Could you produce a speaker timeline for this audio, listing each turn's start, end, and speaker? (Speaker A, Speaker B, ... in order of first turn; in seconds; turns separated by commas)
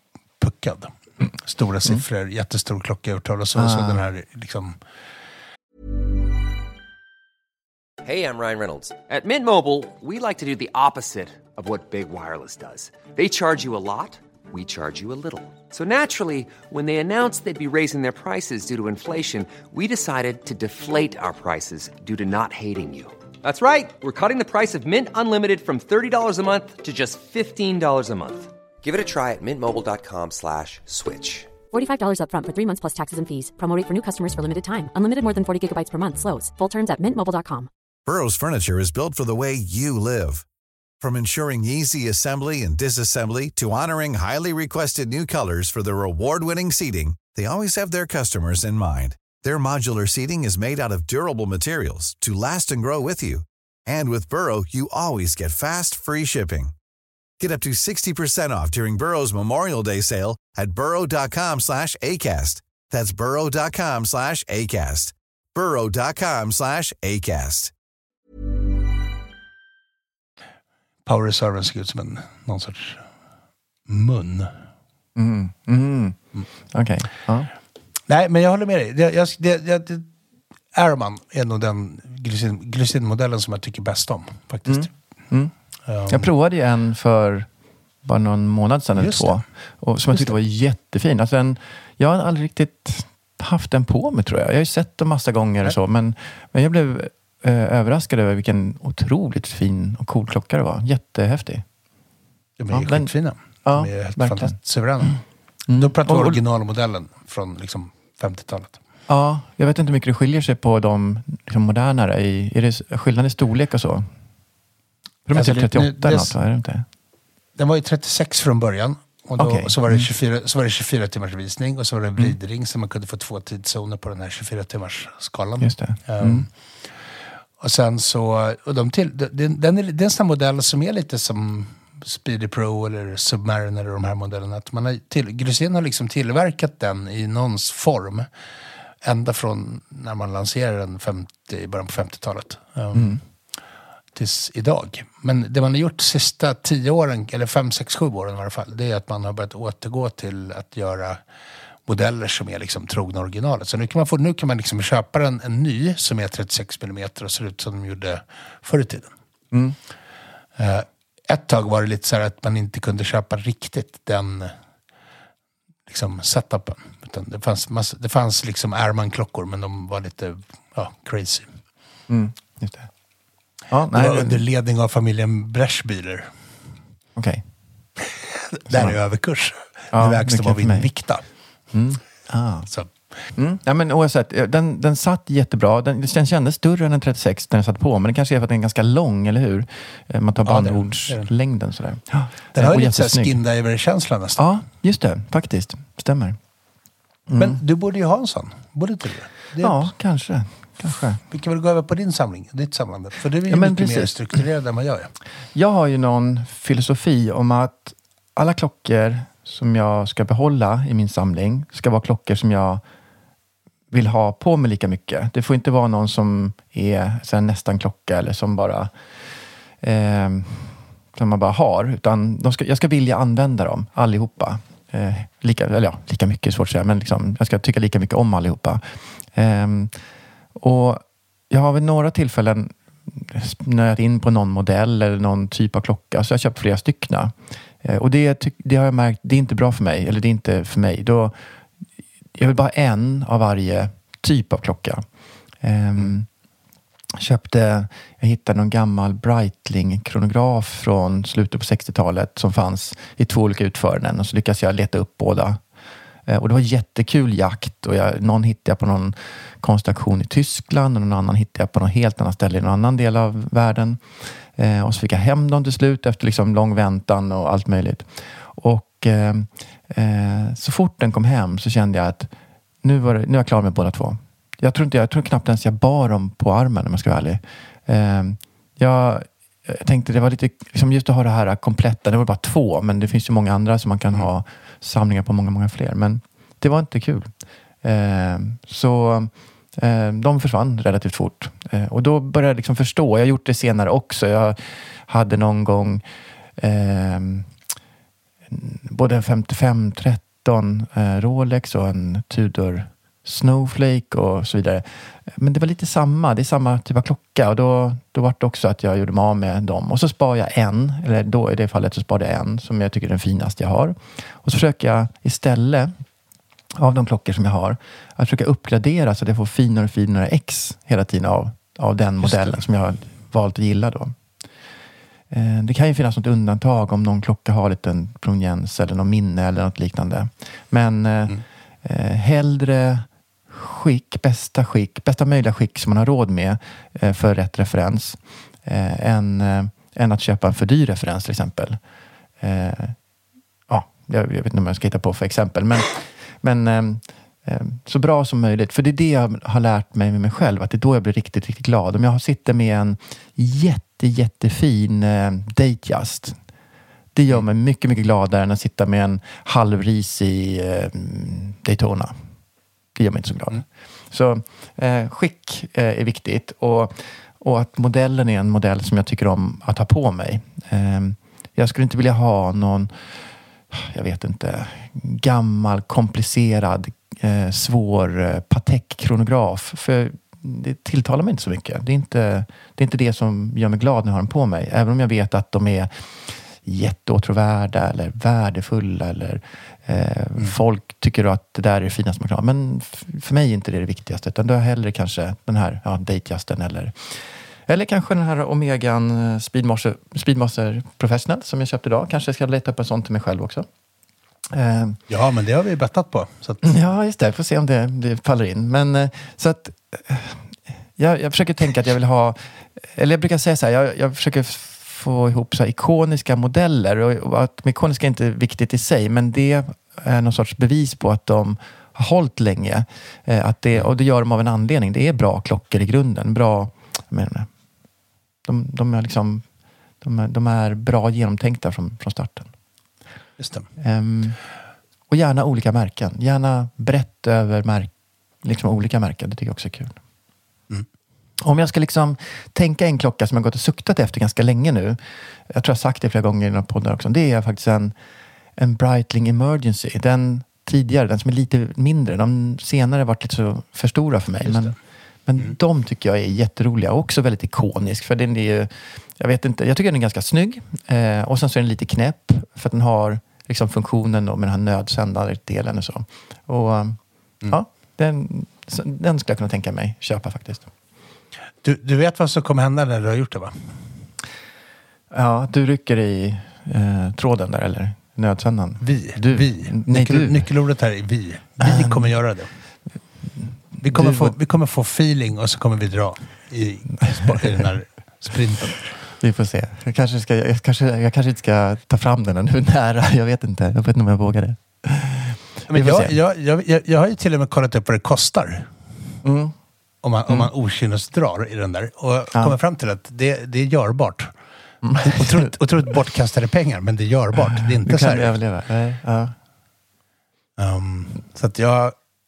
Speaker A: 0.4-4.8, Speaker B: 3.6-4.0, Speaker C: 8.0-31.5, Speaker D: 31.7-37.7, Speaker E: 38.0-40.4, Speaker E: 41.0-56.7, Speaker E: 57.4-67.7, Speaker A: 71.0-73.1, Speaker A: 73.9-74.5, Speaker B: 75.2-77.5, Speaker A: 78.1-80.1, Speaker A: 80.7-84.9, Speaker B: 84.7-85.5, Speaker A: 85.9-86.3, Speaker B: 86.1-87.5, Speaker B: 88.0-101.6, Speaker A: 89.0-89.5, Speaker A: 102.6-105.2, Speaker B: 102.7-103.1, Speaker B: 103.6-104.5, Speaker B: 105.7-106.4, Speaker A: 105.7-108.8, Speaker B: 109.1-114.0, Speaker B: 115.2-116.8, Speaker A: 115.3-116.3, Speaker A: 117.5-126.5, Speaker B: 119.4-120.1, Speaker B: 125.6-126.5, Speaker A: 127.6-138.3, Speaker A: 139.0-143.2, Speaker B: 142.9-143.2, Speaker A: 144.1-151.2, Speaker A: 151.8-159.1, Speaker A: 160.6-164.5, Speaker A: 165.9-171.5, Speaker B: 172.1-172.9, Speaker B: 173.7-174.4, Speaker A: 173.9-176.3, Speaker B: 177.2-177.4, Speaker A: 178.0-181.2, Speaker B: 178.7-178.9, Speaker B: 179.9-180.9, Speaker B: 181.7-182.7, Speaker B: 183.3-193.4, Speaker A: 190.4-191.3, Speaker A: 192.5-194.4, Speaker B: 194.4-196.4, Speaker B: 197.3-197.6, Speaker A: 197.3-199.9, Speaker B: 199.6-201.2, Speaker A: 201.3-205.1, Speaker B: 203.5-204.1, Speaker B: 205.5-212.8, Speaker B: 213.9-218.9, Speaker B: 219.8-228.8, Speaker B: 229.3-229.9, Speaker B: 230.6-241.3, Speaker B: 242.3-245.0, Speaker B: 245.6-246.3, Speaker B: 247.2-255.6, Speaker B: 256.3-264.0, Speaker B: 264.5-272.3, Speaker B: 272.8-296.0, Speaker B: 296.6-297.5, Speaker B: 298.5-315.9, Speaker B: 316.8-324.1, Speaker A: 322.2-322.6, Speaker B: 325.3-341.8, Speaker B: 342.4-342.9, Speaker B: 343.7-356.4, Speaker B: 357.1-362.1, Speaker B: 362.9-372.9, Speaker B: 373.7-386.1, Speaker B: 386.6-403.7, Speaker B: 404.5-405.0, Speaker A: 405.1-406.7, Speaker B: 406.6-410.4, Speaker B: 411.0-427.5, Speaker B: 428.4-429.4, Speaker B: 430.0-432.5, Speaker A: 433.4-433.7, Speaker B: 433.8-434.4, Speaker B: 435.1-437.9, Speaker B: 438.4-440.0, Speaker B: 441.4-447.9, Speaker B: 448.6-454.8, Speaker A: 454.4-454.7, Speaker B: 455.3-470.7, Speaker A: 471.6-473.7, Speaker B: 475.1-480.4, Speaker A: 478.8-482.5, Speaker B: 481.6-482.0, Speaker B: 483.4-484.4, Speaker A: 483.8-488.9, Speaker B: 489.2-496.1, Speaker A: 495.7-498.7, Speaker B: 499.2-499.5, Speaker A: 500.0-504.3, Speaker B: 504.8-505.5, Speaker A: 505.0-508.3, Speaker B: 507.4-509.3, Speaker A: 510.6-511.9